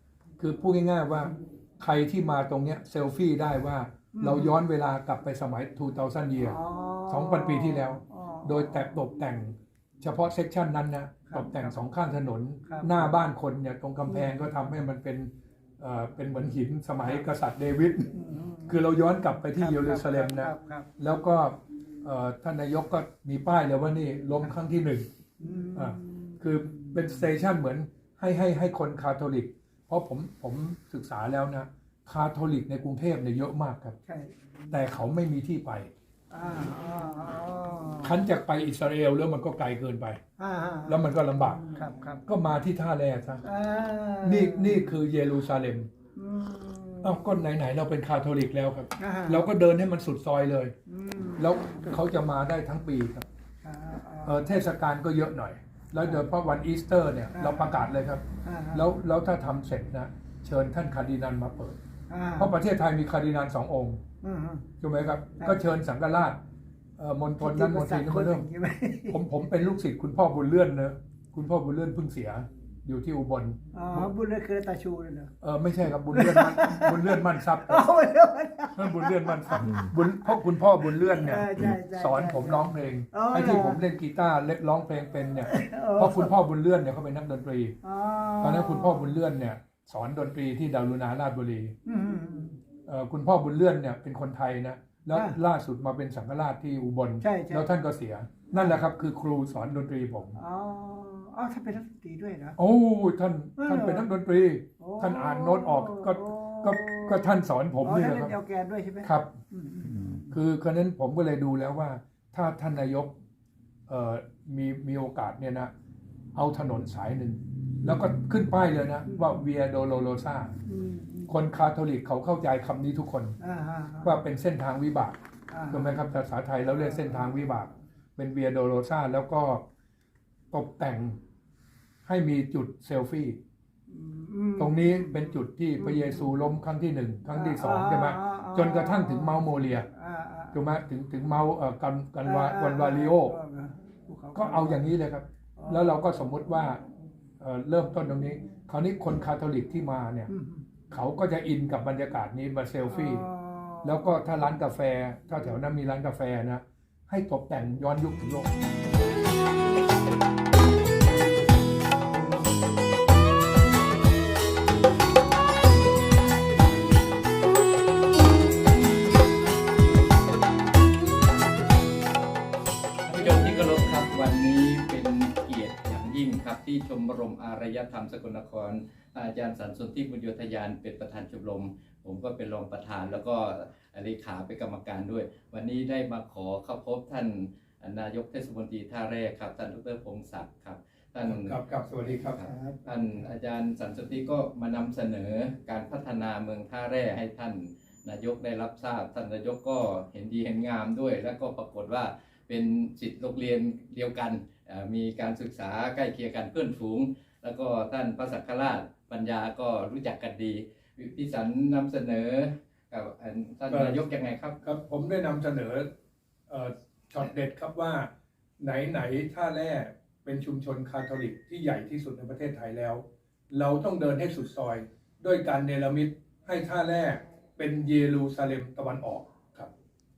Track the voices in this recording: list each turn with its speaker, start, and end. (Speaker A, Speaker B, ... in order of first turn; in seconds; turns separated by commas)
Speaker A: 0.4-18.1, Speaker B: 4.1-4.6, Speaker B: 6.4-8.9, Speaker B: 11.3-11.8, Speaker B: 12.7-13.1, Speaker B: 18.1-18.8, Speaker A: 18.7-25.1, Speaker B: 19.5-20.9, Speaker B: 25.4-27.2, Speaker A: 25.7-34.0, Speaker B: 34.1-34.3, Speaker A: 34.7-35.9, Speaker B: 36.3-38.2, Speaker A: 38.0-40.2, Speaker B: 40.4-42.2, Speaker A: 40.9-41.7, Speaker A: 42.2-43.4, Speaker B: 43.4-45.0, Speaker A: 44.2-45.9, Speaker B: 46.1-47.4, Speaker A: 47.0-50.7, Speaker B: 49.0-49.5, Speaker B: 50.9-51.8, Speaker A: 51.4-53.3, Speaker B: 53.6-54.5, Speaker A: 54.2-61.8, Speaker B: 57.3-57.8, Speaker B: 58.4-58.9, Speaker B: 62.1-62.5, Speaker A: 62.4-64.0, Speaker B: 64.2-64.7, Speaker A: 64.8-66.4, Speaker A: 67.0-68.5, Speaker B: 67.4-69.2, Speaker A: 69.1-74.1, Speaker B: 73.7-75.3, Speaker A: 75.4-77.9, Speaker B: 76.1-79.9, Speaker A: 78.8-87.8, Speaker B: 80.9-83.9, Speaker B: 85.4-86.3, Speaker B: 87.8-89.2, Speaker A: 88.4-91.7, Speaker B: 91.8-92.6, Speaker A: 92.9-100.4, Speaker B: 95.1-95.4, Speaker B: 97.2-97.7, Speaker B: 98.5-98.8, Speaker B: 100.4-102.6, Speaker A: 102.6-108.3, Speaker B: 103.6-104.1, Speaker B: 104.8-107.3, Speaker B: 107.8-110.4, Speaker A: 109.0-109.3, Speaker A: 110.3-113.2, Speaker A: 113.9-115.7, Speaker A: 116.3-120.5, Speaker B: 119.1-119.4, Speaker B: 120.7-121.4, Speaker A: 121.3-123.4, Speaker B: 123.4-124.2, Speaker A: 124.0-125.2, Speaker B: 125.5-126.0, Speaker A: 125.7-129.6, Speaker B: 126.8-127.4, Speaker A: 130.5-131.2, Speaker A: 132.1-133.4, Speaker B: 133.9-136.3, Speaker A: 134.6-139.9, Speaker B: 137.3-140.7, Speaker A: 140.5-143.4, Speaker B: 142.2-144.9, Speaker A: 144.3-146.8, Speaker B: 145.6-146.0, Speaker A: 147.4-150.3, Speaker B: 150.3-150.7, Speaker A: 150.9-153.3, Speaker B: 152.9-154.1, Speaker A: 153.8-158.5, Speaker C: 173.1-191.6, Speaker A: 191.2-192.4, Speaker B: 192.1-193.2, Speaker C: 192.2-214.6, Speaker A: 213.7-214.0, Speaker A: 214.6-215.9, Speaker A: 216.5-229.7